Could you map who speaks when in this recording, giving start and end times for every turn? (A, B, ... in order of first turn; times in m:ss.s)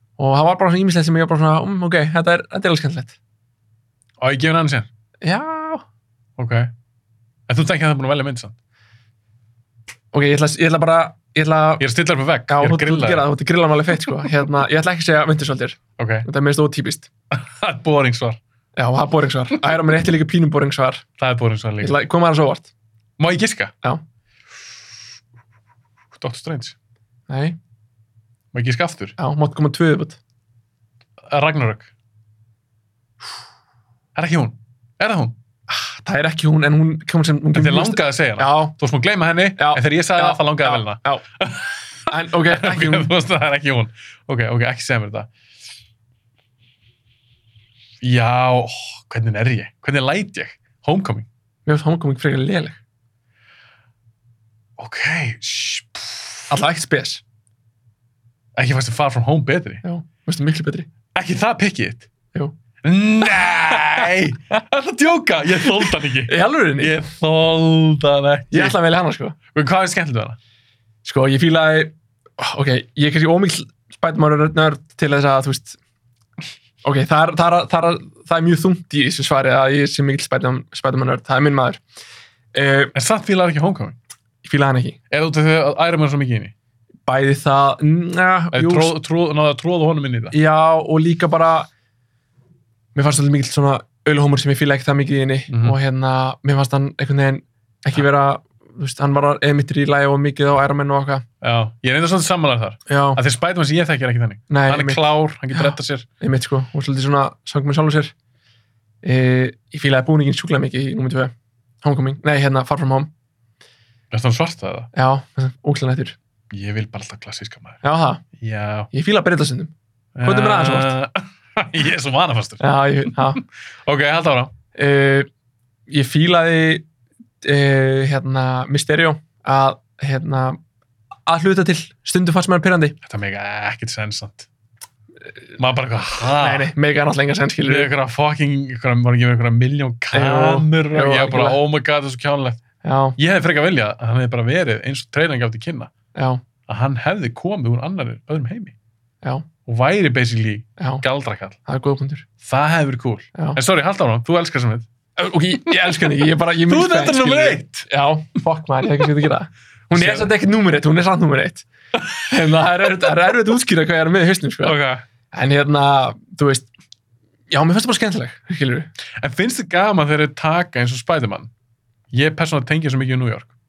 0:00.2-0:03.2 A
0:04.2-0:04.9 B
0:05.2-0:05.8 A
0:06.4-0:06.7 B
0:07.5-0:08.6 B
0:10.1-0:11.9 A
0:11.8-0:13.3 B
0:12.5-0:17.1 A
0:16.0-0:16.3 B
0:17.3-0:18.4 B
0:18.8-0:21.0 A
0:21.2-0:22.0 B
0:21.8-0:22.7 A
0:23.2-0:23.7 B
0:26.2-0:26.8 B
0:27.3-0:27.6 A
0:28.5-0:29.2 B
0:29.2-0:30.2 A
0:31.3-0:31.9 B
0:34.2-0:35.4 B
0:35.7-0:38.8 A
0:37.5-0:45.3 B
0:39.6-0:41.2 A
0:42.1-0:43.1 A
0:48.0-0:51.3 B
0:51.7-0:52.8 A
0:54.8-0:56.5 B
0:56.5-0:57.2 A
0:58.6-0:59.8 B
0:59.8-1:00.9 A
1:01.2-1:02.1 B
1:02.8-1:08.8 B
1:03.6-1:04.6 A
1:05.6-1:07.0 A
1:08.5-1:09.4 A
1:09.5-1:10.4 B
1:11.0-1:15.8 A
1:16.8-1:21.8 A
1:22.5-1:22.9 A
1:22.9-1:24.0 B
1:24.4-1:25.0 A
1:25.1-1:26.5 B
1:27.1-1:28.9 A
1:28.5-1:30.4 B
1:30.3-1:31.7 A
1:33.0-1:41.2 A
1:35.5-1:35.8 B
1:41.4-1:46.1 B
1:42.9-1:43.2 A
1:44.5-1:48.1 A
1:49.0-1:53.1 A
1:54.1-1:54.9 B
1:54.9-1:56.2 A
1:56.5-1:57.8 B
1:57.8-1:58.2 A
1:58.4-1:58.9 B
1:58.9-1:59.7 A
2:00.2-2:04.5 B
2:00.2-2:00.9 A
2:02.6-2:03.4 A
2:04.7-2:05.3 A
2:05.9-2:06.9 A
2:07.4-2:10.6 A
2:11.3-2:13.0 A
2:13.0-2:14.5 B
2:15.6-2:16.7 B
2:16.2-2:17.9 A
2:17.7-2:22.6 B
2:20.1-2:21.6 A
2:22.8-2:23.2 A
2:23.2-2:25.9 B
2:26.2-2:26.4 A
2:26.7-2:28.8 B
2:29.7-2:31.6 B
2:30.8-2:31.0 A
2:31.6-2:32.3 A
2:32.4-2:34.9 B
2:33.4-2:33.6 A
2:35.2-2:41.7 A
2:36.1-2:37.9 B
2:39.9-2:40.3 B
2:42.2-2:44.8 A
2:44.6-2:45.0 B
2:45.3-2:46.7 A
2:47.5-2:48.9 A
2:49.2-2:51.5 B
2:52.1-2:53.5 B